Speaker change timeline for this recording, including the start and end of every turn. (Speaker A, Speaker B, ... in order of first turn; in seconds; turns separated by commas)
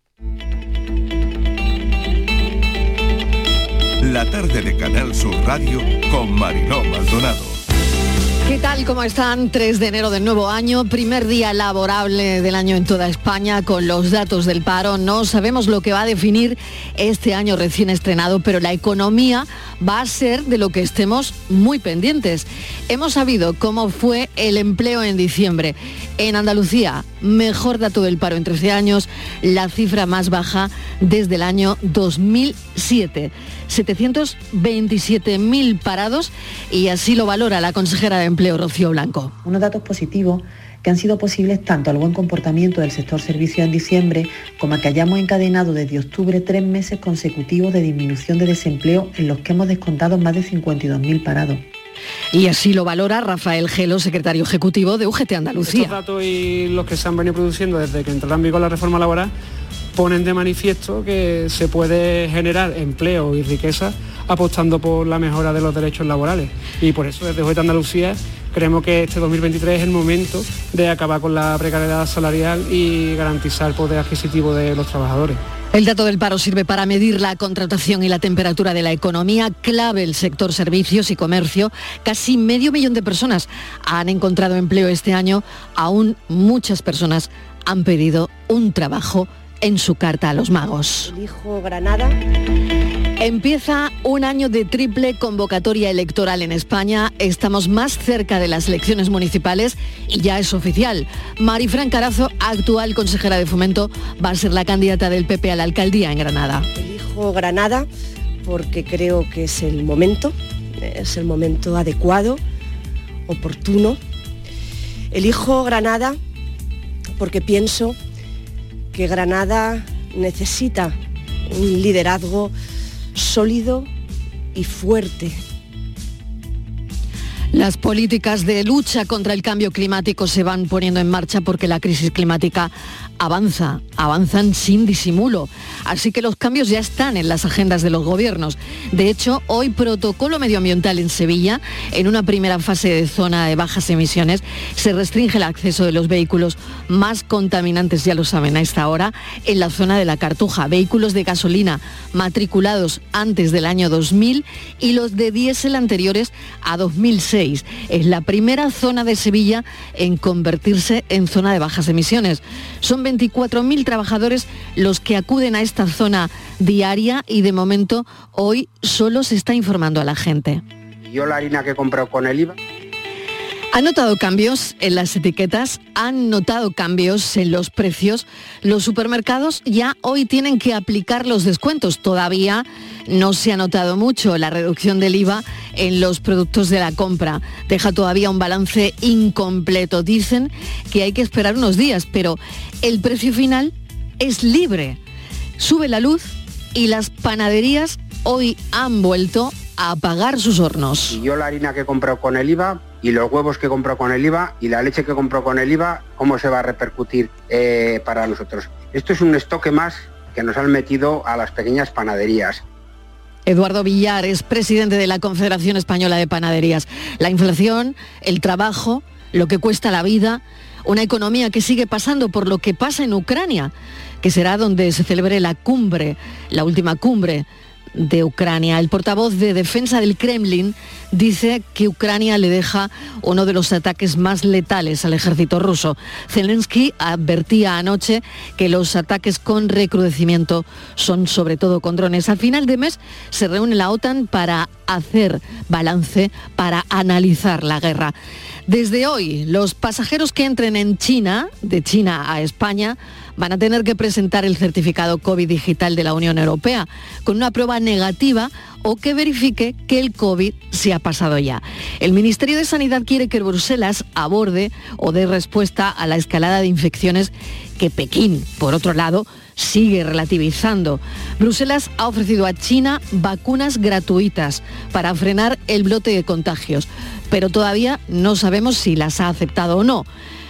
Speaker A: 4.0-7.6, Speaker B: 8.4-39.4, Speaker C: 39.4-51.6, Speaker B: 52.3-56.0, Speaker D: 55.6-59.3, Speaker D: 59.9-75.4, Speaker B: 75.7-91.1, Speaker E: 91.0-92.2, Speaker B: 93.2-106.7, Speaker E: 106.8-107.9, Speaker E: 108.4-112.4, Speaker E: 113.3-114.0, Speaker E: 115.1-116.2, Speaker E: 117.2-118.0, Speaker E: 118.9-121.0, Speaker E: 121.5-122.5, Speaker E: 123.1-123.9, Speaker E: 124.5-125.4, Speaker B: 127.5-170.6, Speaker F: 171.0-172.5, Speaker B: 173.7-195.0, Speaker B: 195.6-201.2, Speaker F: 201.1-212.6, Speaker B: 213.4-248.1, Speaker B: 248.7-280.1